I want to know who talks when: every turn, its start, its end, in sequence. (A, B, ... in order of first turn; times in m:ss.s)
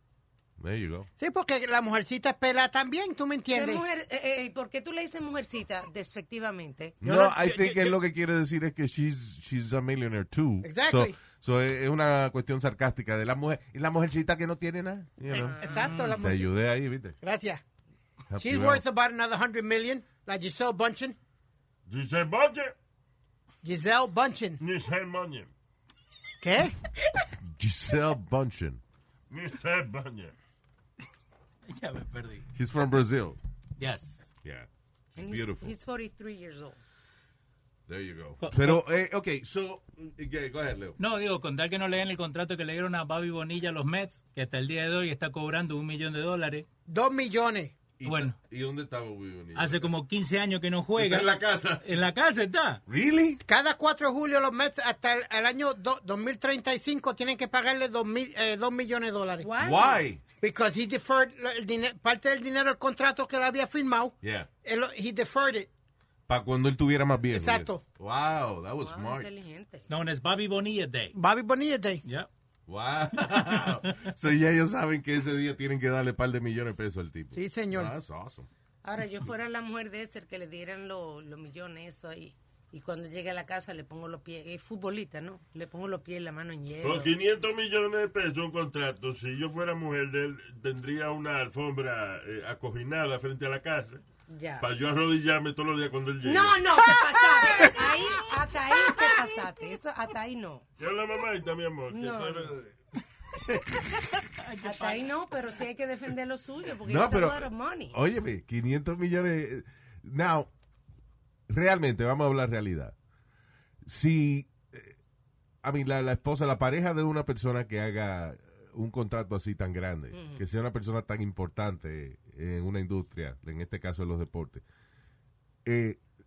0:00.6-0:01.1 A
0:01.2-0:03.8 B
0:03.5-0:07.0 C
0:07.0-0:15.6 A
0:07.0-0:07.9 B
0:10.6-0:11.2 B
0:15.3-0:15.9 C
0:15.3-0:16.5 B
0:15.7-0:16.2 D
0:16.2-0:17.2 A
0:17.2-0:17.6 B
0:18.3-0:18.8 A
0:18.4-0:21.2 B
0:21.9-0:22.7 E
0:23.6-0:24.6 B
0:24.6-0:25.5 E
0:26.4-0:26.8 B
0:27.4-0:28.8 A
0:29.3-0:30.3 E
0:31.7-0:32.4 D
0:32.5-0:33.4 A
0:33.8-0:34.3 D
0:34.4-0:35.7 A
0:35.2-0:36.8 C
0:37.9-0:41.0 A
0:38.4-0:38.8 D
0:41.0-0:46.6 D
0:46.9-0:47.8 B
0:48.0-0:49.9 A
0:48.0-0:48.4 D
0:49.5-0:52.8 D
0:50.9-0:51.9 A
0:52.9-0:53.4 A
0:53.4-0:59.5 B
0:59.4-1:00.0 C
0:59.6-1:00.2 A
1:00.4-1:05.7 B
1:04.2-1:04.5 A
1:06.3-1:09.2 A
1:07.3-1:07.8 B
1:08.8-1:09.9 C
1:09.9-1:11.2 D
1:11.1-1:12.0 B
1:12.7-1:18.5 A
1:13.3-1:14.0 D
1:17.3-1:17.9 B
1:18.8-1:27.1 C
1:26.8-1:34.0 E
1:34.3-1:34.6 C
1:34.6-1:36.8 E
1:36.2-1:40.6 C
1:40.8-1:42.7 E
1:41.9-1:42.5 C
1:44.2-1:45.1 D
1:44.6-1:48.0 C
1:46.8-1:50.5 A
1:51.5-1:52.9 A
1:53.8-1:55.0 A
1:55.6-2:04.6 A
2:00.1-2:00.4 C
2:05.6-2:06.0 A